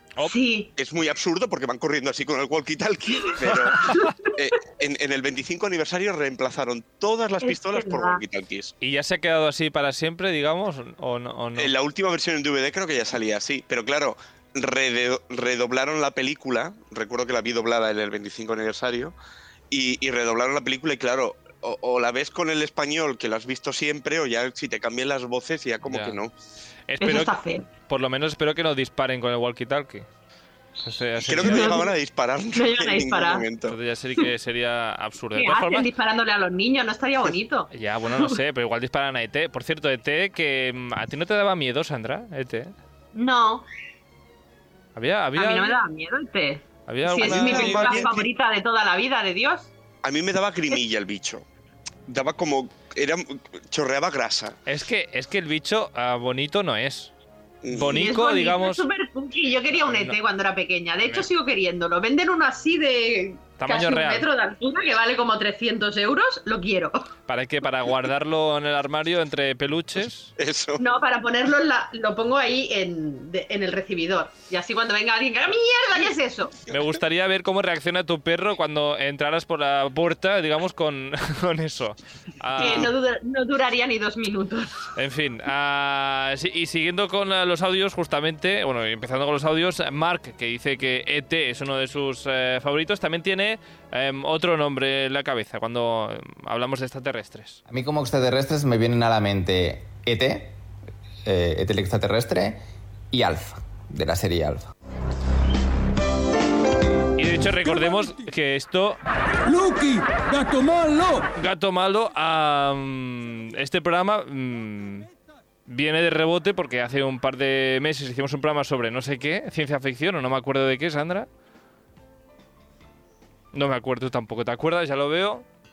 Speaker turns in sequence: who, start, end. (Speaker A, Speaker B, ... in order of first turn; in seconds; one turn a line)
Speaker A: 0.2-0.7
Speaker B: 0.8-8.7
Speaker A: 3.9-4.3
Speaker A: 7.4-8.2
Speaker C: 8.8-11.7
Speaker B: 11.6-19.2
Speaker B: 19.7-26.3
Speaker C: 25.9-26.2
Speaker C: 26.9-30.1
Speaker A: 27.0-27.7
Speaker C: 30.8-31.8
Speaker B: 31.2-33.8
Speaker A: 31.4-31.9
Speaker A: 32.5-33.5
Speaker C: 33.7-35.9
Speaker A: 35.4-38.4
Speaker C: 37.7-42.7
Speaker A: 43.1-43.7
Speaker C: 45.0-45.8
Speaker A: 45.4-49.7
Speaker C: 46.9-48.1
Speaker B: 47.2-48.3
Speaker B: 50.0-51.5
Speaker B: 52.1-54.6
Speaker C: 54.7-57.1
Speaker B: 57.6-58.0
Speaker C: 57.7-58.8
Speaker A: 57.8-67.1
Speaker C: 59.8-60.2
Speaker C: 63.6-64.3
Speaker C: 67.3-70.3
Speaker B: 70.4-70.8
Speaker A: 70.8-76.6
Speaker C: 76.7-82.9
Speaker A: 82.6-84.9
Speaker C: 85.0-97.6
Speaker D: 97.7-100.6
Speaker D: 101.2-104.7
Speaker C: 107.2-109.0
Speaker C: 111.1-115.1
Speaker C: 115.7-121.3
Speaker C: 123.5-125.5